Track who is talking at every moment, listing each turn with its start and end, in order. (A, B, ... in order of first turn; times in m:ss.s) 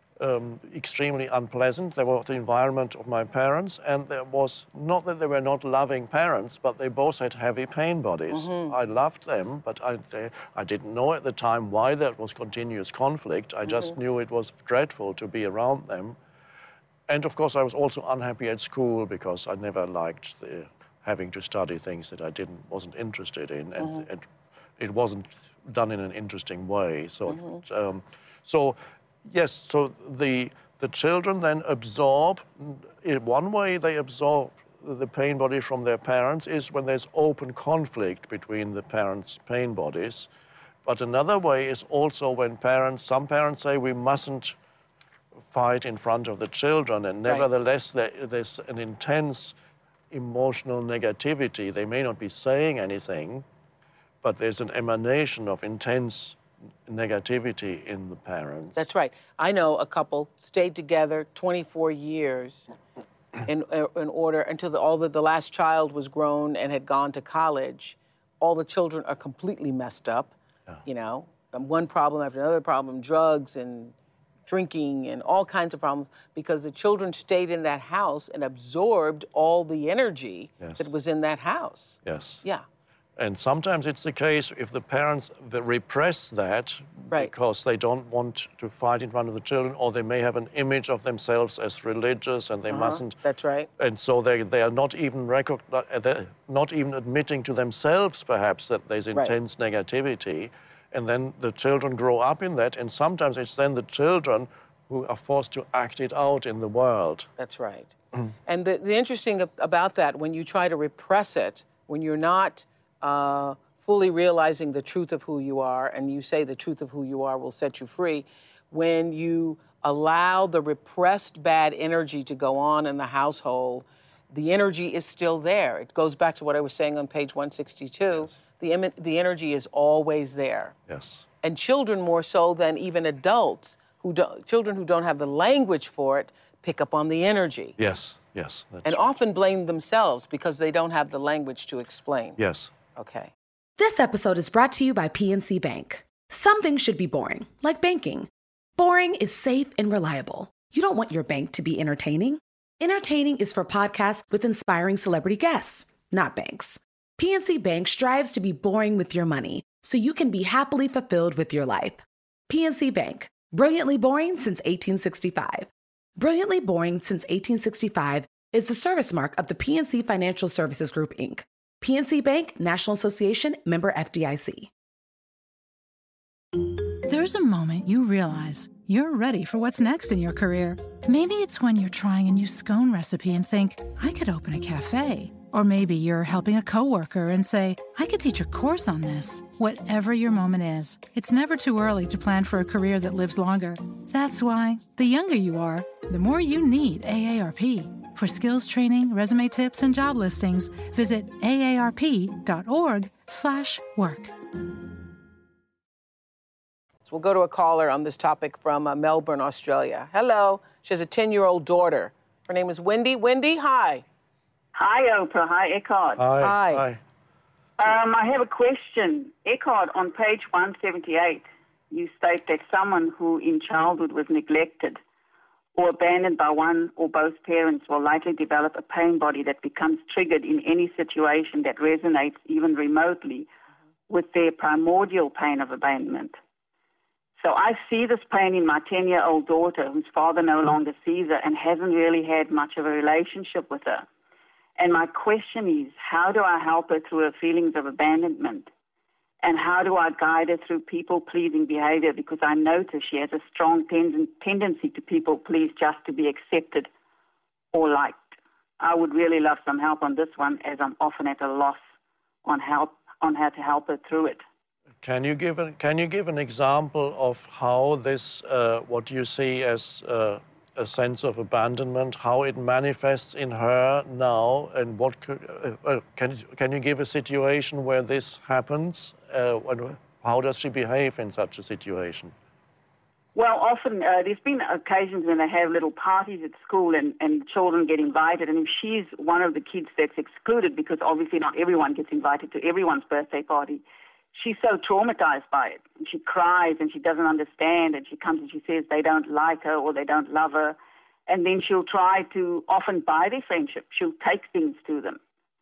0:00.2-0:16.2 A
0:08.3-0:08.7 B
0:13.7-0:13.9 B
0:17.1-0:40.3 A
0:27.3-0:27.6 B
0:40.8-0:44.6 A
0:45.4-0:49.6 A
0:50.1-0:53.5 A
0:54.2-0:58.9 A
0:58.8-1:02.7 B
1:03.5-1:10.3 B
1:10.8-1:14.0 B
1:14.5-1:22.6 B
1:20.6-1:20.9 A
1:22.0-1:22.4 A
1:23.2-1:33.2 A
1:32.7-1:33.7 B
1:33.8-1:47.3 A
1:47.4-1:48.0 B
1:48.5-2:10.8 B
2:10.9-2:11.3 A
2:11.4-2:17.8 B
2:17.8-2:19.1 A
2:18.8-2:22.4 B
2:22.4-2:22.7 A
2:23.0-2:23.3 B
2:23.8-2:54.7 C
2:56.6-3:24.3 D
3:27.1-3:34.0 B
3:34.8-3:36.2 E
3:36.2-3:37.0 A
3:36.4-3:36.8 B
3:37.8-3:45.0 E
3:45.8-3:53.5 E
3:54.1-3:56.4 E
3:57.4-4:04.1 E
4:04.8-4:08.7 E
4:09.4-4:16.9 E
4:17.7-4:18.2 E
4:18.8-4:21.8 E
4:22.4-4:24.4 E
4:25.0-4:42.3 A
4:43.4-4:53.8 E
4:54.4-5:00.8 E
5:01.3-5:05.2 E